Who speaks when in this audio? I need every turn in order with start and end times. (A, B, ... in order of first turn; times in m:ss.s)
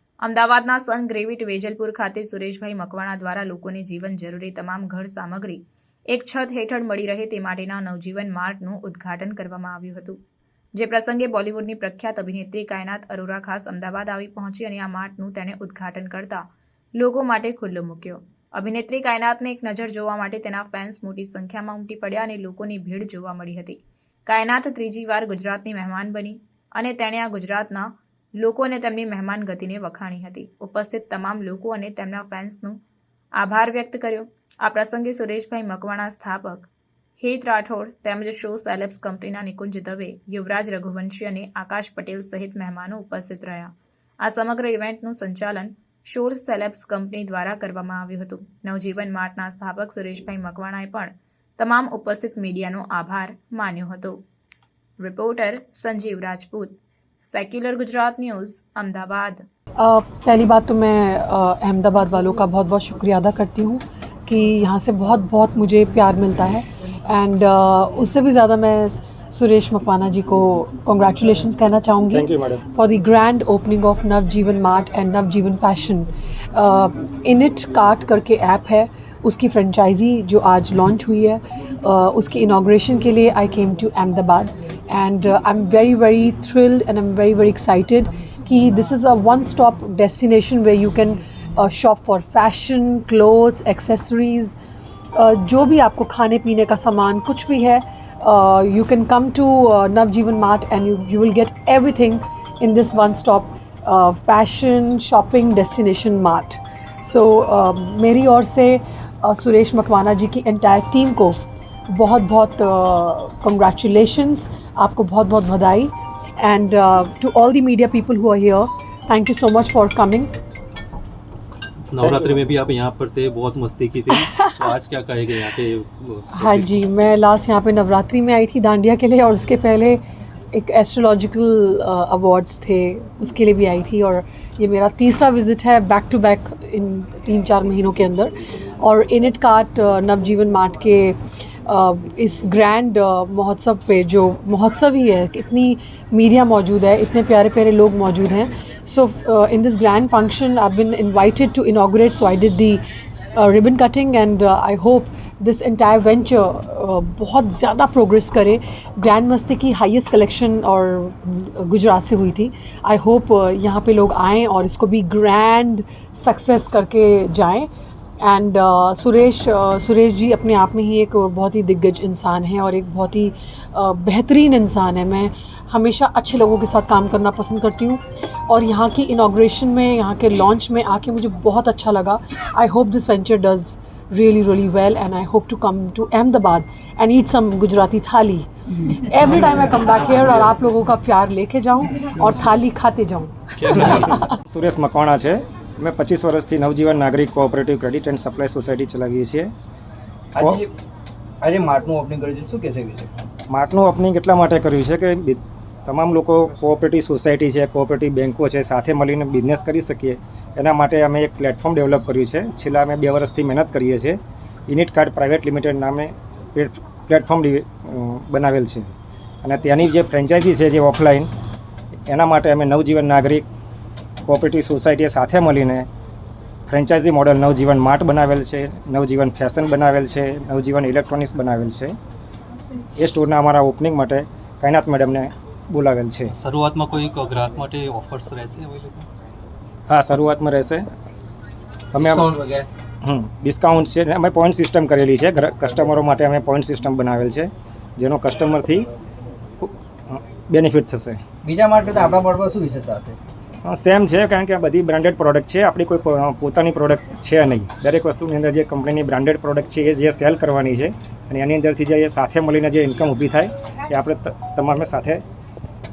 0:00.2-0:10.2 A
0:10.7-0:32.8 A
0:33.4-0:36.7 A
0:37.2-0:54.2 A
0:55.0-0:59.4 A
0:59.8-1:51.4 B
1:12.1-1:12.6 C
1:51.9-2:00.3 B
2:01.9-2:06.8 D
2:02.0-2:02.4 C
2:04.2-2:04.5 B
2:06.3-2:10.0 B
2:10.5-2:32.8 B
2:33.4-2:47.7 B
2:48.2-3:14.3 B
3:14.5-3:19.5 C
3:20.3-3:20.7 E
3:20.4-3:20.6 C
3:21.4-3:23.1 E
3:23.5-3:38.9 C
3:39.4-3:41.3 C
3:42.1-3:43.4 C
3:44.2-3:45.9 C
3:46.7-3:51.9 C
3:53.0-3:56.3 C
3:56.3-3:59.0 D
3:59.9-4:00.8 C
4:01.9-4:02.3 C
4:02.0-4:02.7 E
4:03.0-4:08.9 C
4:09.6-4:11.2 C
4:11.4-4:13.2 E
4:13.6-4:25.2 C